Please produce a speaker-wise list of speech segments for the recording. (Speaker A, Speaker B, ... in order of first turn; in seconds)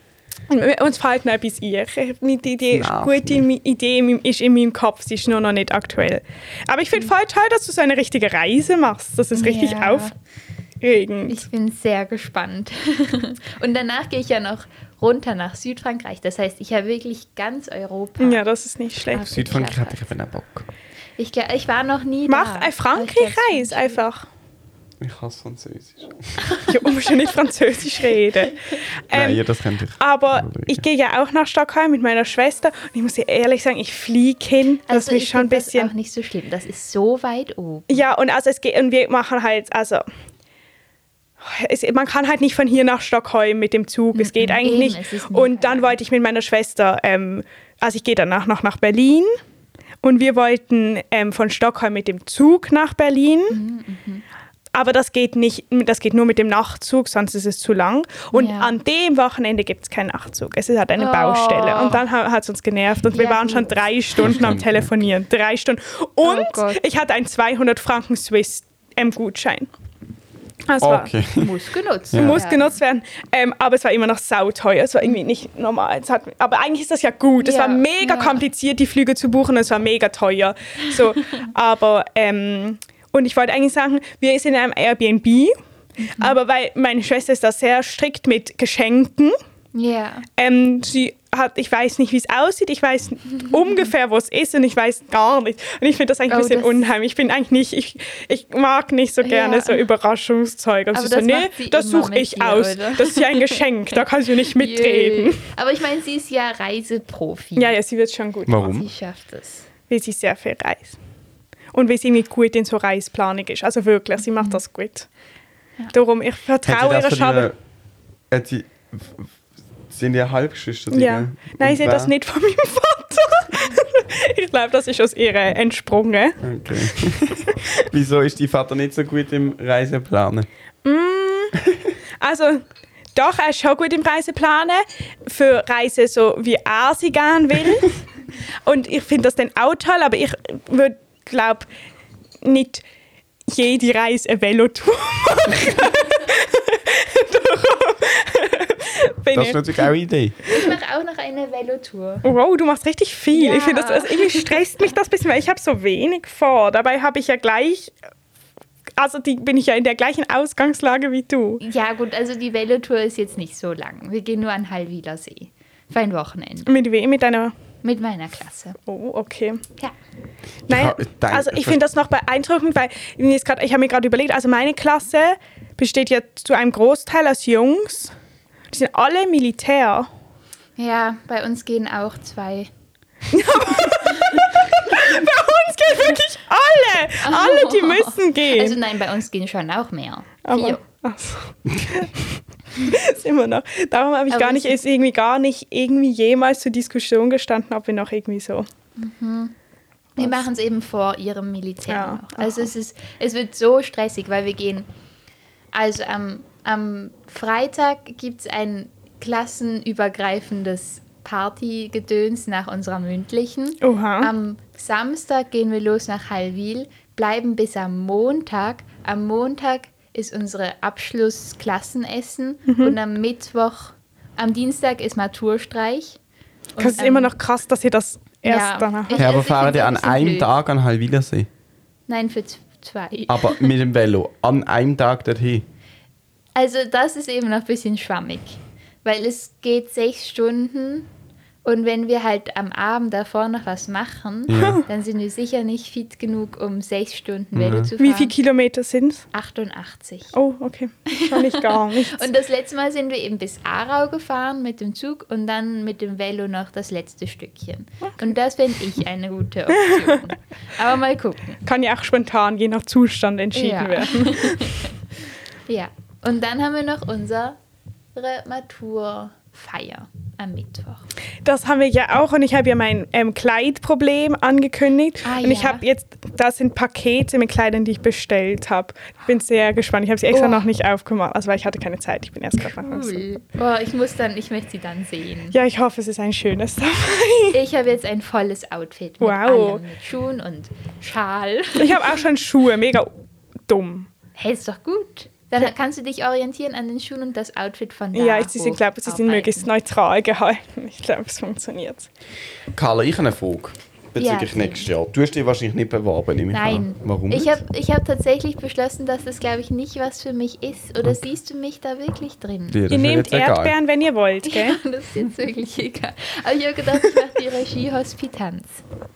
Speaker A: 0.5-10.1, 10.8-11.4, 18.2-19.3, 22.3-24.3, 26.7-28.6, 29.1-29.4, 30.0-35.9, 37.9-40.0, 41.4-49.4, 50.0-53.6, 54.7-69.7, 70.7-71.1, 72.2-85.5, 86.2-89.3, 90.4-105.4, 107.6-108.6, 109.9-111.0, 111.7-115.1, 115.9-117.5, 120.9-126.4, 127.6-127.8, 130.8-131.6, 132.2-132.6, 133.2-137.9, 138.7-141.7, 142.4-142.8, 143.5-149.9, 152.2-157.9, 159.0-161.6, 166.7-167.5, 168.9-169.6, 170.7-178.2, 178.7-180.1, 183.3-188.8, 190.4-198.7, 201.9-202.7, 213.8-214.3, 222.7-223.0, 226.8-229.2, 244.5-244.8, 248.0-249.2, 250.3-252.3, 259.8-260.2, 261.6-264.9, 271.4-283.2, 285.5-287.6, 289.2-289.8, 291.8-293.1, 293.7-294.1, 298.1-302.1, 312.9-314.8
Speaker B: 2.7-3.5, 19.1-20.7, 25.0-26.4, 29.1-30.8, 64.2-65.0, 70.8-71.5, 72.1-72.4, 108.5-108.9, 116.7-117.6, 118.3-119.3, 119.9-122.1, 126.4-130.5, 131.7-131.9, 149.3-150.4, 170.7-171.8, 229.2-231.5, 233.3-235.7, 244.5-244.8, 247.6-247.9, 302.7-307.6, 312.7-313.7
Speaker C: 9.3-10.1, 11.3-18.4, 19.1-20.0, 21.2-24.0, 34.9-38.0, 44.1-46.0, 53.5-54.2, 58.3-58.8, 61.0-62.0, 63.1-64.3, 66.2-66.8, 71.4-72.8, 77.4-78.4, 86.0-86.4, 89.7-90.3, 96.3-96.8, 99.2-99.8, 100.9-107.8, 108.5-109.7, 114.4-114.6, 150.5-152.2, 153.3-154.8, 161.6-166.7, 167.8-168.8, 180.8-182.7, 183.6-185.0, 187.2-190.8, 194.3-194.8, 199.0-199.5, 200.2-204.9, 205.7-226.2, 226.8-227.3, 228.5-230.5, 232.1-233.7, 236.6-241.1, 241.6-248.3, 249.3-250.3, 251.1-261.6, 263.6-264.9, 265.7-267.6, 268.1-271.1, 275.2-275.8, 280.3-280.7, 282.6-285.6, 287.5-292.2, 294.4-299.7, 304.2-304.9, 306.5-312.8, 314.5-318.8